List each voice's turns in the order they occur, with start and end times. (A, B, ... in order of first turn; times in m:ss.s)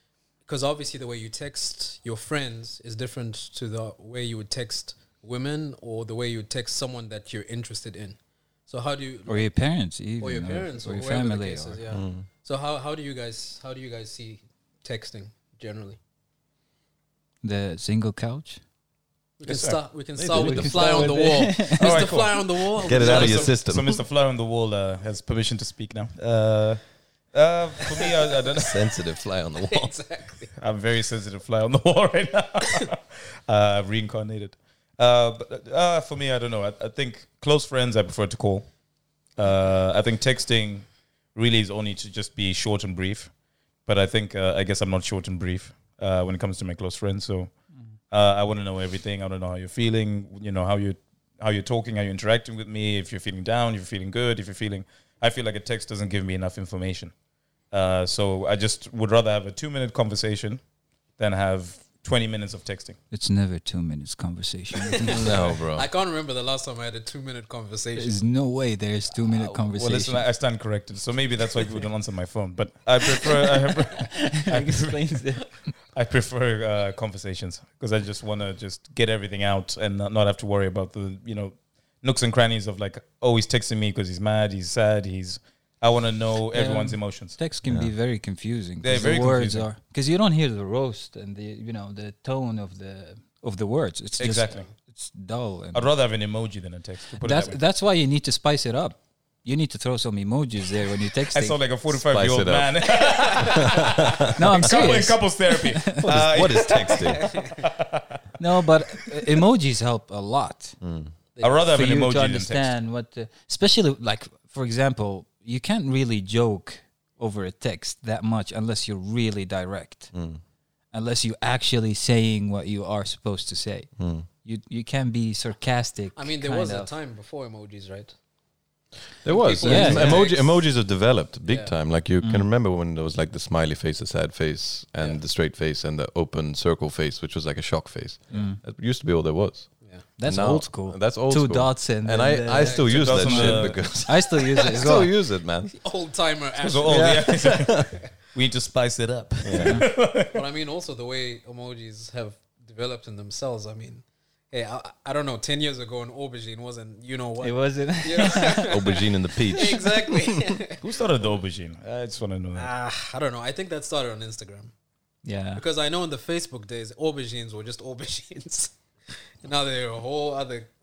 0:00.5-0:09.5 A
0:09.3-0:11.8 B
0:10.2-0:16.0 A
0:11.9-0:12.3 C
0:17.4-0:18.6 B
0:19.4-0:23.6 A
0:19.4-0:19.8 D
0:20.2-0:21.1 C
0:20.3-0:22.1 B
0:21.8-0:26.8 D
0:22.8-0:24.0 C
0:27.3-0:28.8 D
0:28.6-0:29.9 C
0:29.6-0:30.6 A
0:30.6-0:38.7 D
0:39.4-0:43.3 D
0:43.8-0:47.5 D
0:48.1-0:57.1 D
0:57.7-1:00.6 D
1:01.2-1:03.0 D
1:03.1-1:05.4 B
1:05.0-1:08.2 A
1:05.1-1:05.9 C
1:08.0-1:10.3 B
1:09.4-1:15.3 D
1:14.2-1:15.7 B
1:15.9-1:27.4 D
1:26.5-1:35.9 B
1:27.7-1:27.9 C
1:28.8-1:29.7 D
1:34.2-1:34.7 D
1:35.7-1:37.6 D
1:37.2-1:41.6 B
1:41.3-1:48.2 D
1:42.1-1:44.9 C
1:44.4-1:46.1 B
1:46.0-1:47.3 C
1:47.0-1:47.6 A
1:48.4-1:50.8 B
1:50.8-1:51.1 C
1:51.4-1:51.6 A
1:51.4-1:52.7 D
1:51.7-2:00.1 B
2:00.1-2:00.4 C
2:00.9-2:06.9 B
2:04.0-2:04.3 C
2:06.2-2:08.1 A
2:09.2-2:25.8 C
2:09.2-2:10.7 A
2:09.6-2:10.3 B
2:11.5-2:11.7 A
2:12.2-2:12.5 B
2:18.3-2:18.6 B
2:20.2-2:25.1 B
2:22.6-2:22.8 A
2:22.9-2:23.8 D
2:24.6-2:25.1 A
2:25.7-2:27.8 A
2:26.6-2:30.4 D
2:26.9-2:27.9 C
2:29.4-2:29.8 C
2:29.6-2:29.9 B
2:30.0-2:41.0 A
2:37.4-2:38.7 B
2:38.5-2:40.2 C
2:40.8-2:42.7 D
2:42.6-2:44.7 A
2:45.2-2:45.6 B
2:45.6-2:48.7 A
2:49.4-2:50.7 A